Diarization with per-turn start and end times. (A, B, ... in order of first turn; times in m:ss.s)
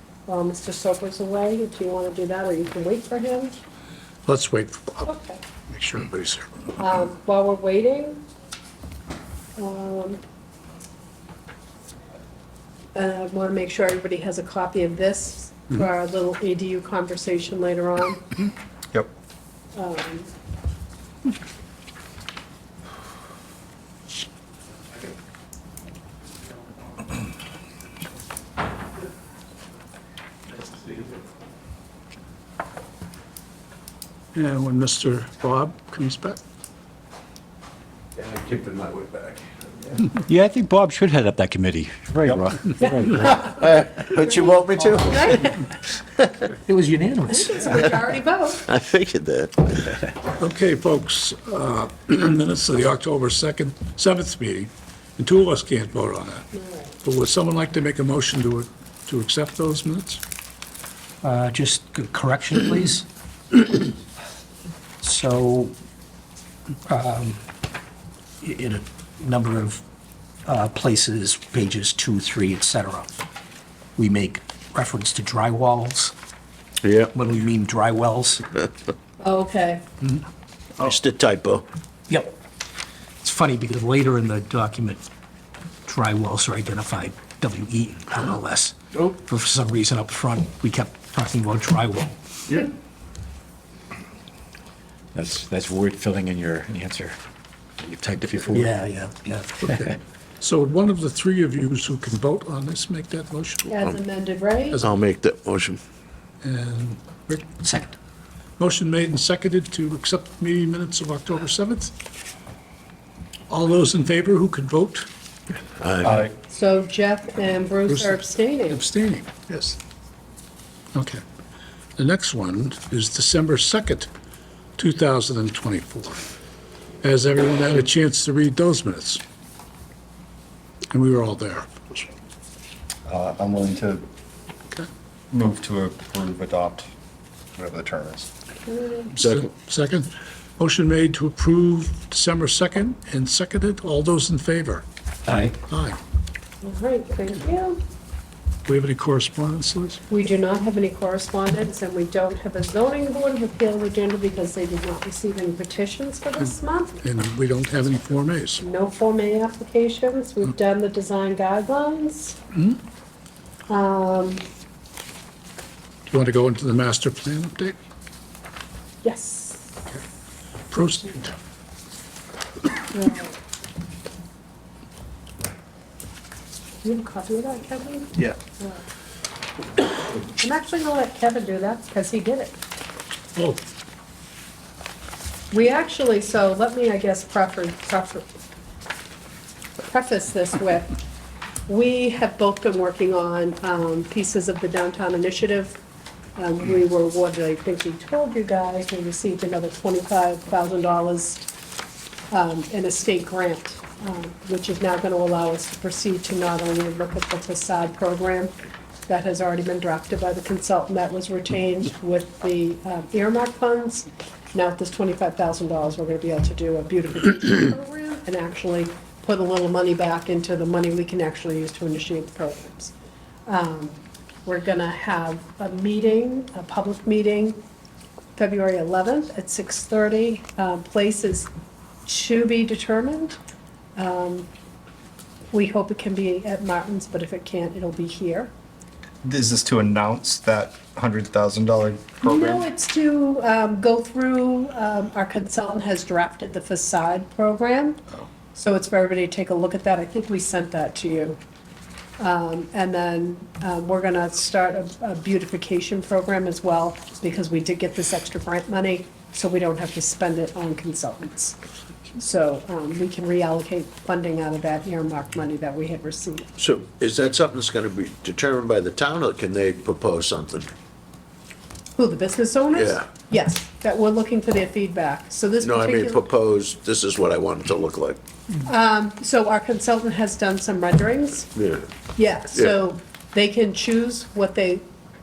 0:00.3-0:03.6 A
0:04.2-0:05.1 B
0:05.0-0:05.4 A
0:05.7-0:06.7 B
0:06.8-0:08.2 A
0:09.6-0:10.2 A
0:12.9-0:18.2 A
0:19.7-0:20.3 A
0:34.3-0:36.4 B
0:38.2-0:40.0 C
0:40.2-0:43.4 D
0:43.1-0:45.6 C
0:45.0-0:45.6 A
0:46.2-0:46.5 C
0:46.6-0:47.9 E
0:47.3-0:48.6 A
0:48.6-0:50.0 C
0:50.4-0:56.5 B
0:56.6-0:56.9 A
0:57.0-1:00.2 B
1:01.2-1:03.9 E
1:05.0-1:05.7 E
1:06.9-1:07.4 E
1:08.4-1:09.8 E
1:10.4-1:13.1 E
1:14.0-1:16.1 E
1:16.8-1:17.1 C
1:17.1-1:18.5 E
1:19.2-1:19.8 A
1:20.8-1:21.6 C
1:22.1-1:22.3 E
1:23.2-1:25.0 E
1:25.9-1:32.6 E
1:35.1-1:37.2 D
1:37.8-1:38.8 D
1:38.5-1:39.7 E
1:39.7-1:43.7 B
1:43.7-1:44.8 A
1:44.8-1:45.8 C
1:46.4-1:47.5 B
1:47.6-1:47.9 E
1:48.6-1:51.9 B
1:53.5-1:55.1 B
1:55.8-1:56.2 C
1:56.0-1:56.3 F
1:56.5-1:58.8 A
1:57.9-1:59.8 B
2:00.9-2:01.2 B
2:02.0-2:04.1 B
2:04.8-2:06.2 B
2:07.0-2:09.2 B
2:10.9-2:12.1 B
2:13.0-2:14.0 F
2:15.3-2:16.9 F
2:17.5-2:18.3 F
2:18.6-2:19.1 A
2:19.1-2:24.8 B
2:19.2-2:19.5 C
2:25.7-2:26.0 B
2:26.6-2:27.8 A
2:28.6-2:30.0 B
2:30.1-2:37.0 A
2:37.0-2:38.6 B
2:38.6-2:42.4 A
2:43.7-2:44.4 A
2:46.1-2:47.8 B
2:49.0-2:49.7 A
2:50.7-2:51.3 B
2:52.9-2:53.4 A
2:56.8-2:58.8 A
3:00.3-3:02.6 A
3:03.4-3:03.6 B
3:05.5-3:08.3 A
3:09.9-3:10.9 A
3:11.7-3:15.8 A
3:16.4-3:21.5 A
3:22.3-3:28.5 A
3:29.1-3:42.9 A
3:43.4-3:47.6 A
3:48.4-3:51.5 A
3:52.0-3:53.4 A
3:54.0-3:54.5 A
3:55.5-3:58.5 A
3:59.2-4:02.7 F
4:02.2-4:08.0 A
4:08.5-4:11.4 A
4:12.2-4:21.6 A
4:22.2-4:26.5 A
4:26.6-4:30.7 C
4:32.0-4:36.2 A
4:32.7-4:33.0 C
4:35.6-4:38.2 C
4:38.6-4:41.5 A
4:41.5-4:41.8 C
4:42.2-4:44.8 A